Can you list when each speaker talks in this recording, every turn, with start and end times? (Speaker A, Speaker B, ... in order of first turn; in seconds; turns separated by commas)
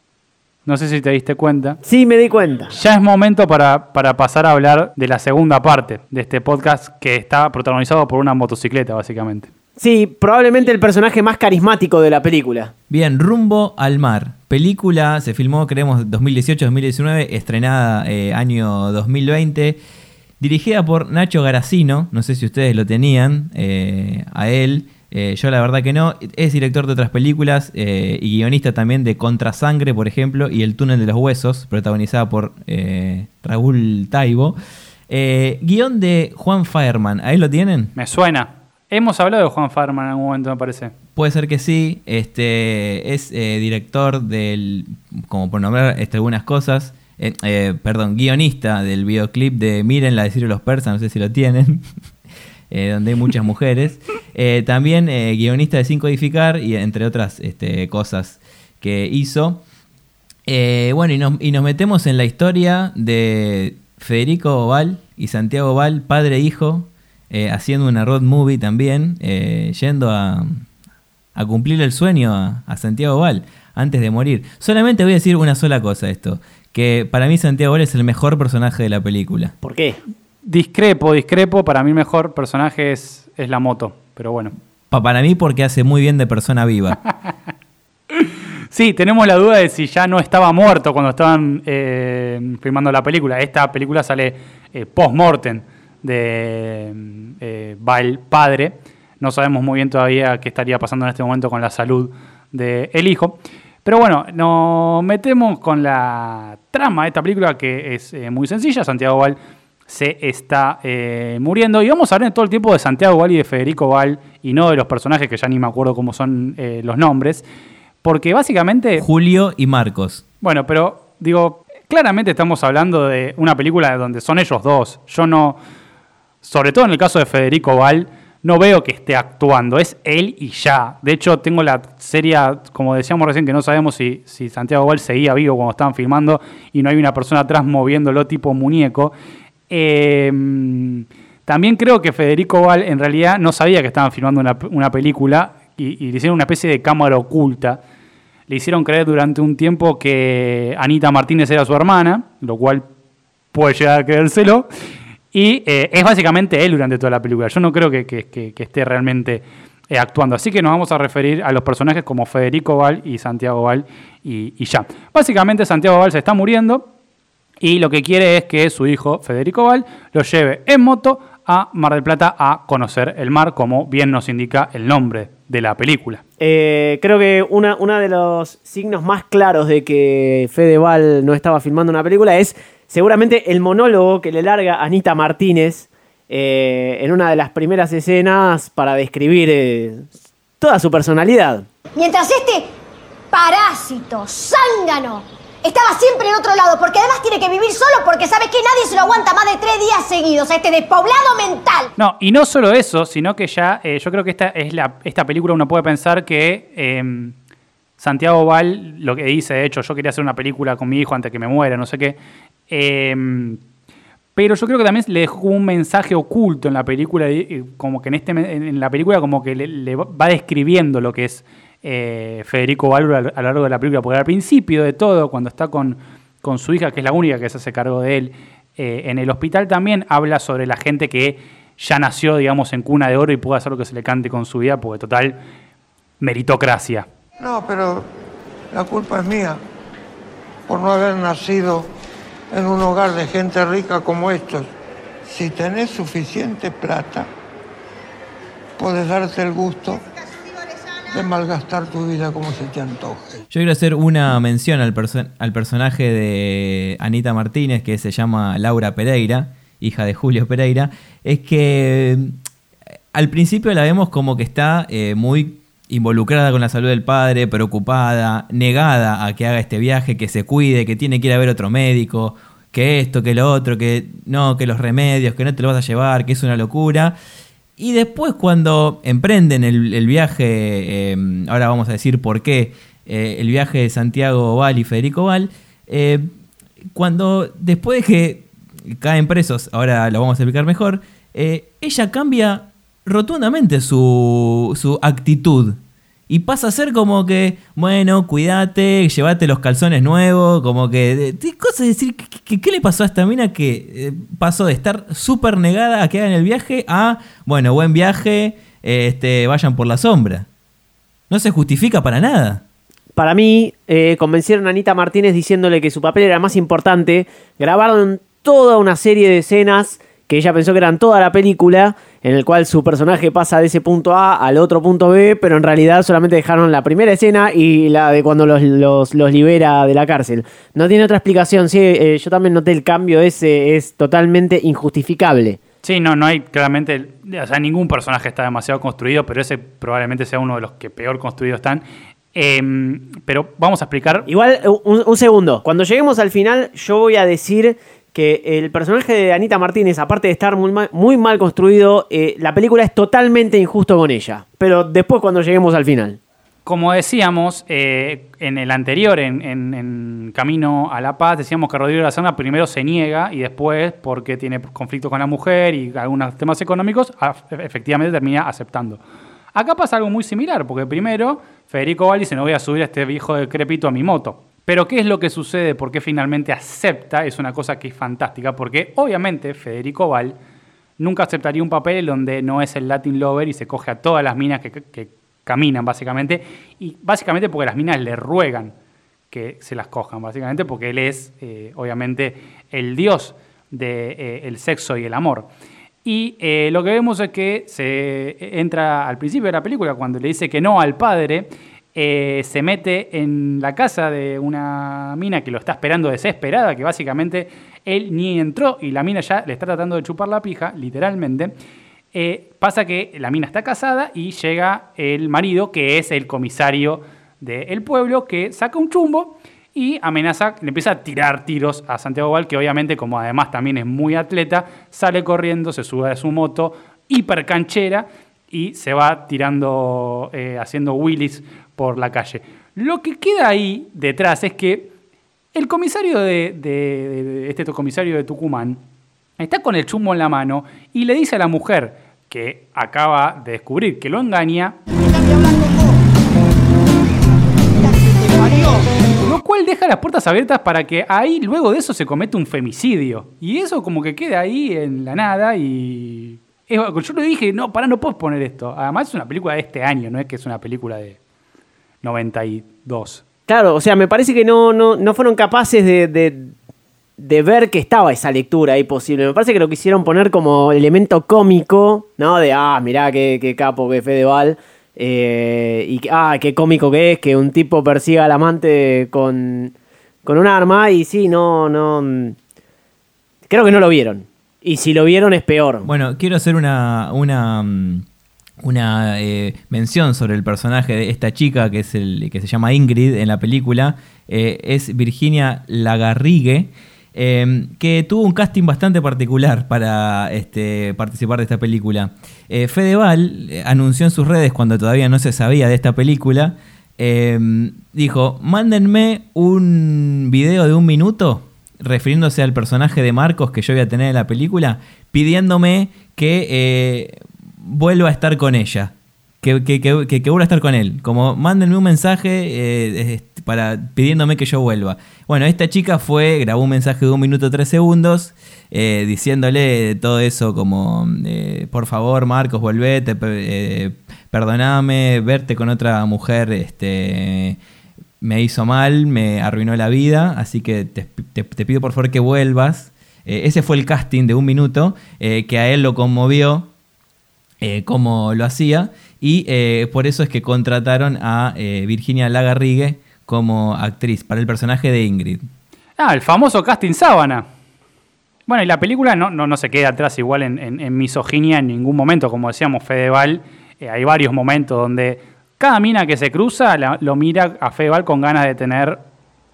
Speaker A: 0.7-1.8, Speaker B: 1.9-2.7, Speaker A: 2.7-9.5, Speaker B: 9.8-12.7, Speaker C: 12.9-19.8, Speaker C: 20.4-34.6, Speaker C: 35.1-37.9, Speaker A: 38.0-40.9, Speaker C: 41.2-51.8, Speaker C: 52.7-59.6, Speaker C: 60.5-70.7, Speaker C: 71.3-79.5, Speaker B: 79.6-80.0, Speaker A: 80.5-84.5, Speaker C: 84.9-87.0, Speaker A: 88.2-109.4, Speaker A: 109.9-117.4, Speaker A: 118.0-119.0, Speaker C: 119.0-120.2, Speaker A: 120.4-125.6, Speaker A: 126.4-139.1, Speaker A: 139.7-147.8, Speaker A: 148.5-152.9, Speaker A: 153.5-154.7, Speaker A: 155.3-166.9, Speaker A: 167.6-176.2, Speaker B: 176.4-191.7, Speaker D: 192.0-192.7, Speaker D: 193.3-201.9, Speaker A: 202.0-207.4, Speaker A: 208.0-212.2, Speaker A: 212.7-213.6, Speaker A: 214.3-235.4, Speaker A: 236.2-237.1, Speaker E: 237.4-238.1, Speaker E: 238.7-239.6, Speaker E: 240.7-241.9, Speaker E: 242.5-244.7, Speaker E: 245.3-247.3, Speaker E: 248.8-250.0, Speaker E: 251.1-253.4, Speaker C: 253.5-262.4, Speaker C: 263.1-277.1, Speaker C: 277.8-286.3, Speaker C: 286.9-310.5, Speaker C: 311.3-312.6, Speaker B: 313.2-335.6, Speaker A: 335.8-341.8, Speaker A: 342.4-344.3, Speaker B: 344.3-356.2, Speaker A: 356.7-369.0, Speaker A: 369.6-380.4, Speaker A: 381.0-388.7, Speaker A: 389.3-395.5, Speaker A: 396.1-411.5, Speaker A: 412.1-434.9, Speaker A: 435.6-438.8, Speaker A: 439.4-444.8, Speaker A: 449.2-461.2, Speaker A: 462.0-463.2, Speaker B: 463.5-466.5, Speaker B: 467.2-479.7, Speaker B: 480.2-482.4, Speaker B: 483.5-485.9, Speaker C: 485.8-488.1, Speaker C: 488.6-537.6, Speaker C: 538.2-546.7, Speaker C: 547.6-555.5, Speaker A: 556.0-557.5, Speaker A: 558.5-569.0